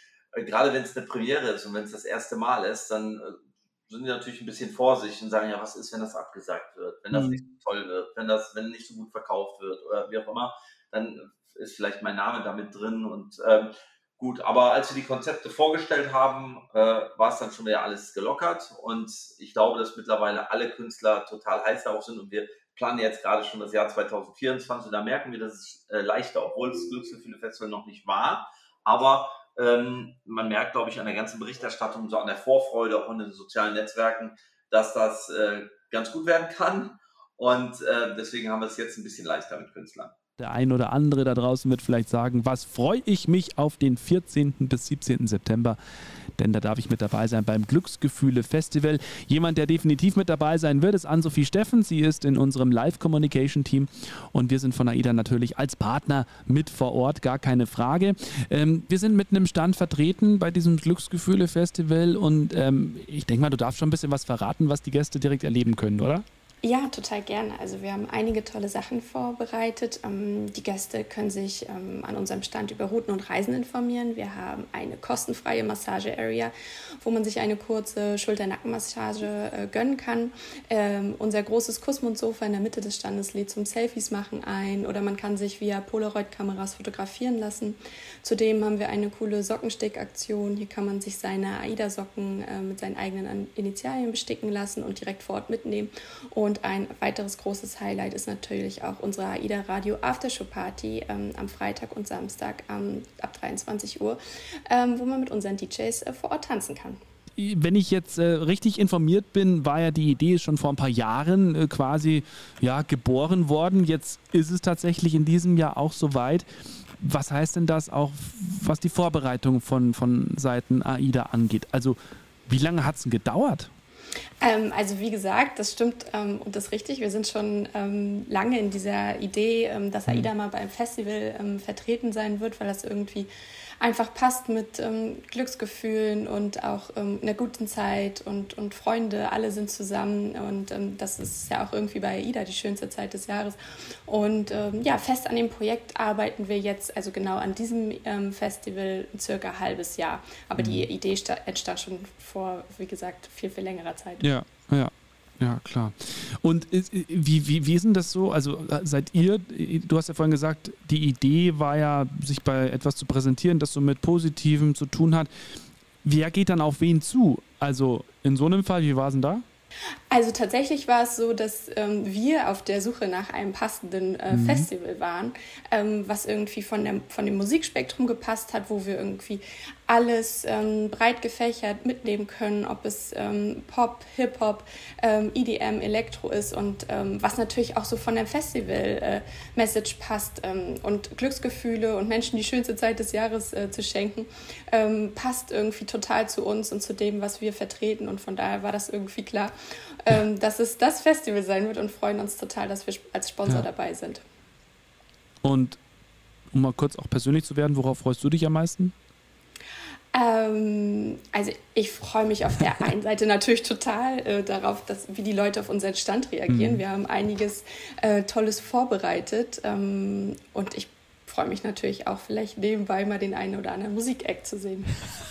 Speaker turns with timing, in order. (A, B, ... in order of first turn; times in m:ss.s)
0:00.3-0:40.1 A
0:07.1-0:07.4 B
0:40.4-0:45.8 B
0:46.4-1:06.2 B
1:06.6-1:47.0 C
1:47.4-1:56.4 B
1:57.0-2:03.7 B
2:04.4-2:34.2 C
2:30.6-2:30.8 B
2:34.2-2:45.3 B
2:46.0-2:49.4 B
2:50.1-3:19.5 C
2:54.3-2:54.7 B
3:20.0-3:24.2 C
3:25.4-3:25.8 B
3:26.5-3:28.9 B
3:30.1-3:44.9 C
3:36.5-3:36.8 B